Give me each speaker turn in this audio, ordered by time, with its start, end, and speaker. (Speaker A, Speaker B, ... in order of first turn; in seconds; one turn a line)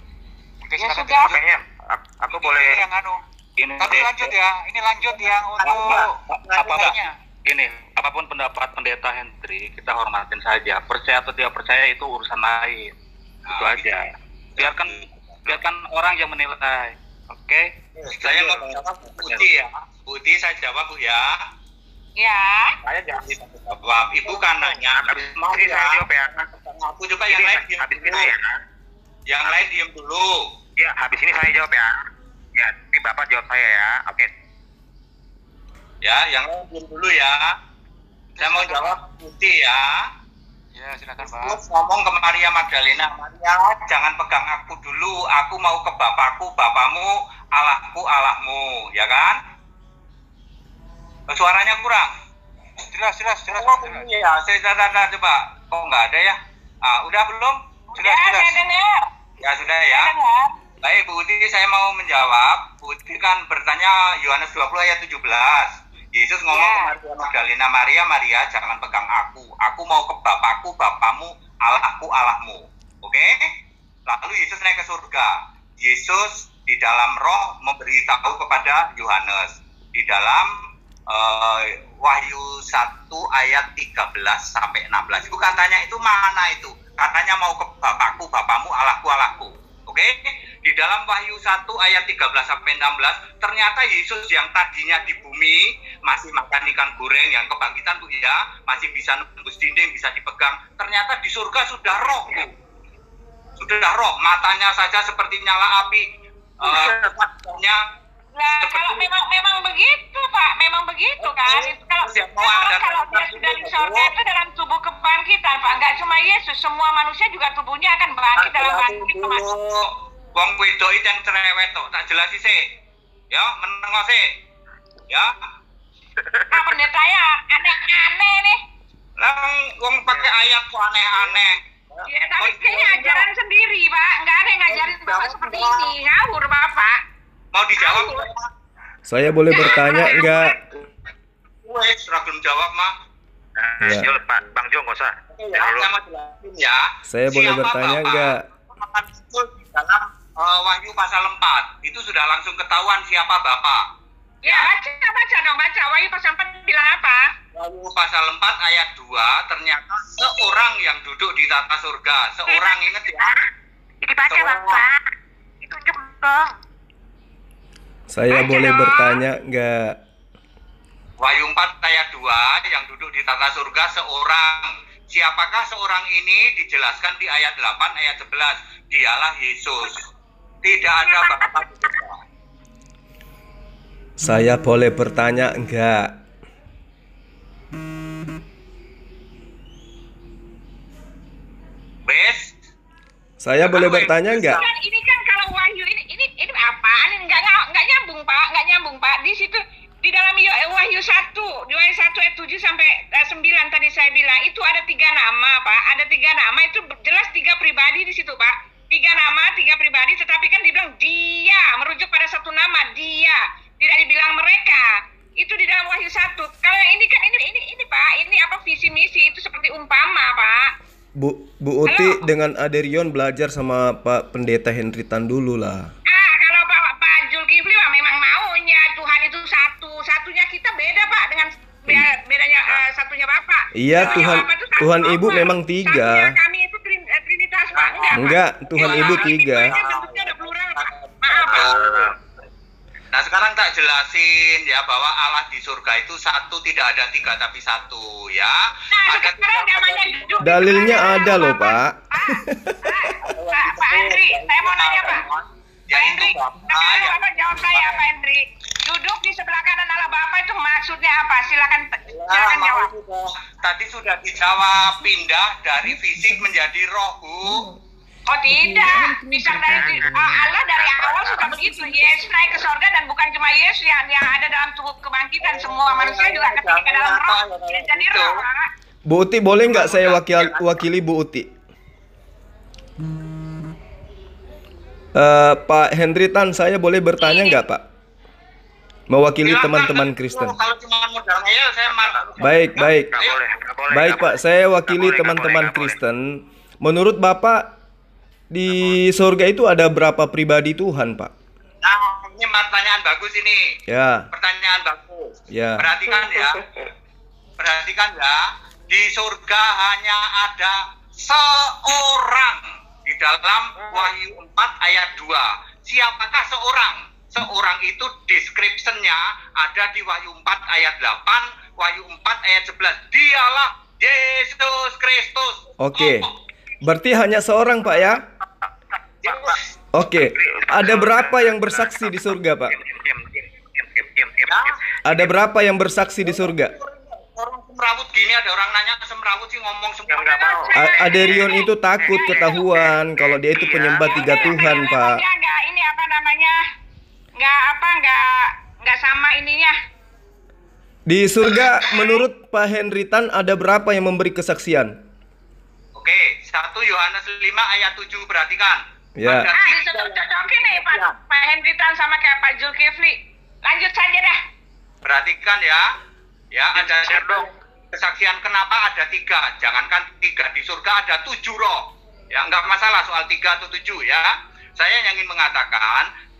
Speaker A: 0.6-1.4
Speaker B: 0.8-1.3
Speaker C: 1.1-2.8
Speaker A: 2.3-3.2
Speaker D: 3.6-4.1
Speaker A: 3.8-7.2
Speaker D: 6.5-6.9
Speaker D: 7.4-12.9
Speaker E: 13.5-13.8
Speaker D: 13.5-14.0
Speaker D: 14.6-19.4
Speaker E: 18.1-21.4
Speaker B: 22.2-22.7
Speaker E: 23.6-28.3
Speaker C: 24.6-26.4
Speaker C: 27.3-28.6
Speaker E: 29.3-30.4
Speaker C: 30.8-31.9
Speaker C: 32.5-34.3
Speaker E: 36.0-37.5
Speaker A: 38.4-39.0
Speaker E: 38.4-39.9
Speaker A: 40.7-41.6
Speaker E: 41.2-49.4
Speaker E: 51.3-52.1
Speaker A: 52.9-54.0
Speaker E: 53.5-57.6
Speaker B: 58.0-59.0
Speaker A: 58.0-58.6
Speaker E: 59.4-60.1
Speaker B: 59.9-60.5
Speaker E: 60.8-73.4
Speaker B: 66.5-66.9
Speaker E: 74.1-80.5
Speaker E: 81.1-102.5
Speaker E: 103.6-106.0
Speaker E: 106.6-107.8
Speaker B: 108.4-119.5
Speaker E: 108.6-109.0
Speaker E: 111.2-114.1
Speaker E: 118.4-122.6
Speaker E: 123.3-124.2
Speaker C: 126.3-126.6
Speaker B: 126.5-128.6
Speaker E: 129.2-131.6
Speaker B: 132.1-136.9
Speaker E: 132.4-133.2
Speaker E: 134.8-135.9
Speaker E: 137.5-138.5
Speaker B: 137.8-138.2
Speaker F: 139.1-140.6
Speaker B: 139.5-140.5
Speaker E: 141.6-142.9
Speaker C: 143.6-145.9
Speaker F: 143.8-144.1
Speaker E: 145.5-153.8
Speaker F: 147.1-148.4
Speaker B: 154.4-157.2
Speaker E: 157.5-163.3
Speaker C: 164.0-164.9
Speaker E: 164.3-164.8
Speaker C: 165.6-166.5
Speaker F: 168.1-170.0
Speaker B: 168.5-168.9
Speaker E: 171.2-180.0
Speaker E: 180.6-182.2
Speaker F: 184.2-186.1
Speaker E: 192.1-192.5
Speaker F: 193.4-194.6
Speaker E: 193.6-194.6
Speaker B: 194.6-214.9
Speaker B: 215.4-220.7
Speaker F: 221.2-225.9
Speaker B: 221.8-222.2
Speaker B: 226.1-241.7
Speaker F: 233.7-236.3
Speaker E: 237.7-238.2
Speaker F: 238.1-239.7
Speaker E: 238.7-242.1
Speaker C: 241.6-242.1
Speaker E: 243.1-251.1
Speaker B: 248.9-255.2
Speaker F: 250.4-252.7
Speaker E: 253.3-258.0
Speaker B: 255.9-262.9
Speaker E: 262.1-267.6
Speaker B: 268.3-278.6
Speaker C: 269.6-272.1
Speaker E: 275.4-278.3
Speaker F: 279.1-281.5
Speaker E: 279.7-280.6
Speaker F: 285.1-287.8
Speaker B: 287.2-287.6
Speaker F: 289.1-290.5
Speaker E: 289.4-293.4
Speaker C: 291.8-296.0
Speaker F: 292.4-293.1
Speaker F: 293.9-297.7
Speaker F: 298.5-301.3
Speaker E: 301.8-303.6
Speaker F: 303.9-304.2
Speaker E: 304.3-306.6
Speaker F: 305.5-305.8
Speaker E: 307.6-308.4
Speaker E: 308.9-326.3
Speaker F: 325.8-326.3
Speaker F: 326.8-328.2
Speaker E: 329.2-329.6
Speaker F: 329.9-332.7
Speaker C: 330.2-334.7
Speaker E: 334.5-334.8
Speaker F: 335.0-336.7
Speaker E: 336.8-340.5
Speaker C: 340.1-344.8
Speaker B: 340.3-341.7
Speaker F: 340.8-345.2
Speaker B: 344.1-346.6
Speaker B: 347.4-348.2
Speaker B: 348.8-349.7
Speaker F: 351.1-354.9
Speaker E: 355.9-361.1
Speaker F: 359.2-359.5
Speaker B: 359.6-364.4
Speaker E: 365.0-365.8
Speaker E: 366.5-376.1
Speaker A: 366.8-367.4